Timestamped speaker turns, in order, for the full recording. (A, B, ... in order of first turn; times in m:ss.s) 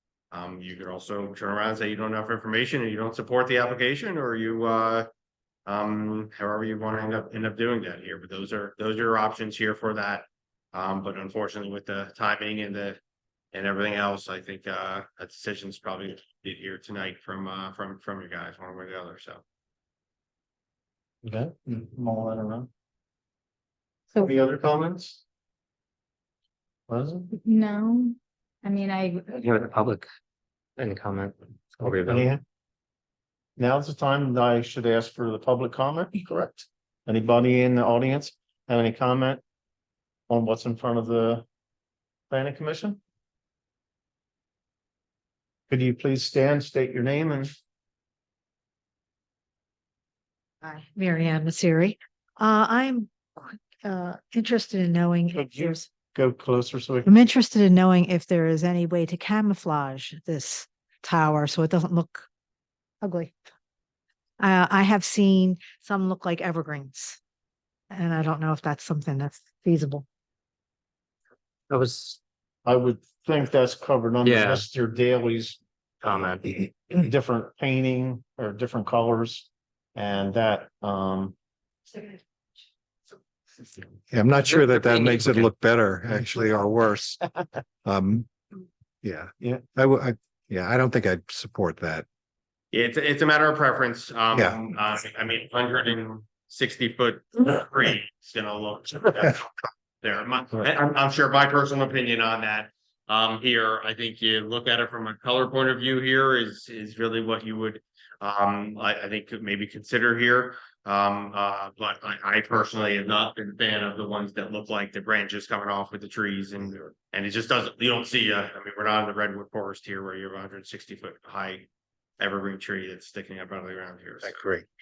0:00.3-0:05.1 A
0:05.7-0:13.0 A
0:13.5-0:19.4 A
0:21.2-0:22.7 B
0:24.2-0:25.2 B
0:26.9-0:27.3 B
0:27.3-0:29.3 C
0:29.3-0:30.1 D
0:30.8-0:32.2 D
0:31.8-0:32.4 B
0:33.6-0:39.4 B
0:40.3-0:41.4 B
0:42.3-0:43.0 B
0:45.7-0:47.5 B
0:50.6-0:55.9 E
0:55.4-0:57.1 B
0:57.0-1:02.3 E
1:03.0-1:03.3 E
1:04.4-1:07.2 E
1:07.9-1:10.0 E
1:11.7-1:12.2 D
1:12.6-1:16.3 B
1:14.2-1:14.6 D
1:16.0-1:16.7 D
1:16.9-1:21.4 B
1:24.1-1:27.2 F
1:24.5-1:25.5 D
1:27.8-1:28.3 F
1:29.0-1:32.0 F
1:32.7-1:39.4 A
1:34.3-1:34.6 F
1:40.0-2:01.7 A
2:02.2-2:04.3 A
2:04.2-2:04.6 F